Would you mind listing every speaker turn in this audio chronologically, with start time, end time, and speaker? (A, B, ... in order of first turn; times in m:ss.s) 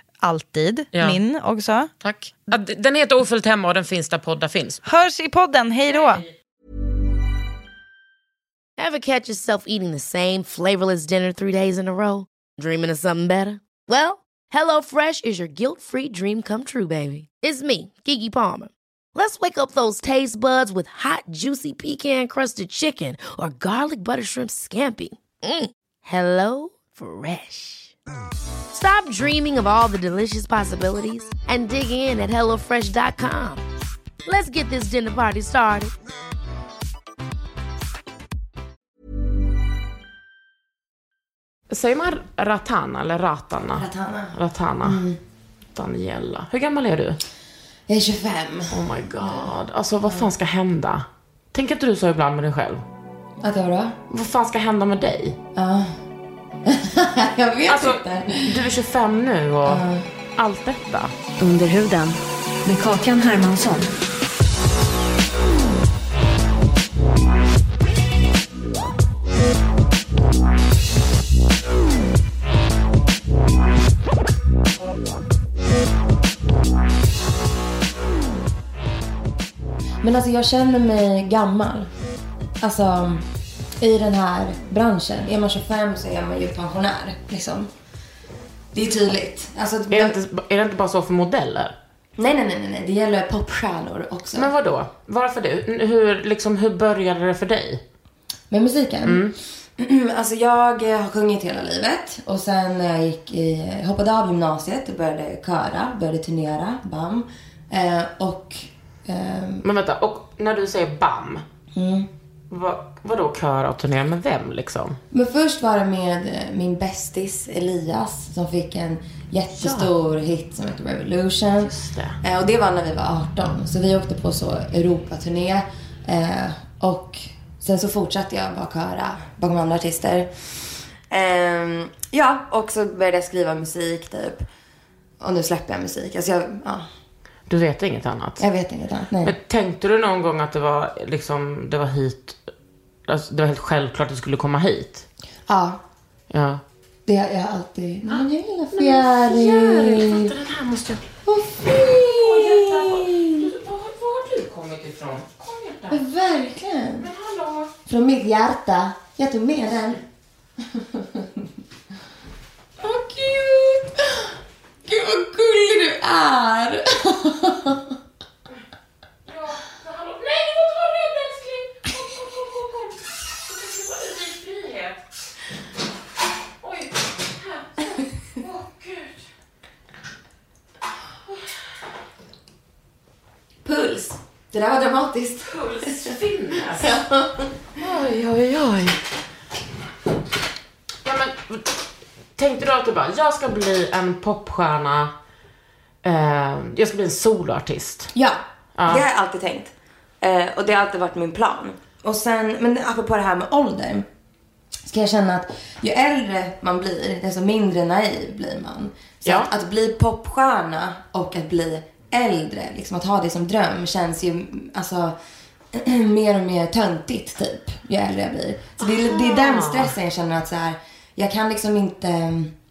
0:00.2-0:01.9 A
0:00.9-0:01.2 B
0:02.0-0:04.8 B
0:04.8-0:06.2 A
0:08.8-0:27.9 C
0:28.7-0:33.6 C
0:34.2-0:35.9 C
0:41.7-0:45.0 B
0:43.7-0:45.2 D
0:45.7-0:47.2 B
0:47.9-0:49.5 D
0:48.7-0:52.8 B
0:53.4-0:54.0 D
0:54.1-0:55.4 B
0:55.6-0:55.9 D
0:56.6-0:58.6 D
0:57.7-0:59.8 B
0:59.6-1:00.0 D
1:00.4-1:01.1 B
1:01.4-1:03.9 E
1:20.0-1:21.9 D
1:22.6-1:23.2 D
1:23.8-1:27.7 D
1:28.7-1:30.2 D
1:29.9-1:31.7 B
1:32.2-1:34.5 D
1:34.3-1:37.8 B
1:38.5-1:49.6 D
1:39.0-1:39.3 B
1:49.6-1:51.4 B
1:51.7-1:52.1 D
1:52.5-1:55.0 B
1:55.1-2:10.3 D
1:59.6-1:59.9 B
2:01.6-2:02.2 B
2:11.1-2:14.4 D
2:15.2-2:16.8 D
2:17.5-2:18.4 B
2:18.4-2:19.3 D
2:19.2-2:22.4 B
2:23.1-2:25.0 B
2:25.5-2:25.8 D
2:26.3-2:26.6 B
2:27.0-2:30.3 D
2:28.1-2:36.0 B
2:31.2-2:33.4 D
2:35.9-2:37.1 D
2:37.0-2:37.7 B
2:37.8-2:40.0 D
2:40.7-2:41.4 D
2:42.8-2:44.3 D
2:44.9-2:47.9 D
2:49.2-2:55.0 B
2:56.6-2:59.2 B
3:03.6-3:06.2 D
3:05.4-3:07.0 B
3:06.8-3:07.5 D
3:07.8-3:09.0 B
3:11.0-3:11.8 B
3:12.4-3:15.1 B
3:16.0-3:18.1 B
3:18.1-3:24.0 D
3:18.8-3:19.0 B
3:24.9-3:35.1 D
3:29.2-3:29.5 B
3:35.7-3:42.5 D
3:38.8-3:40.0 B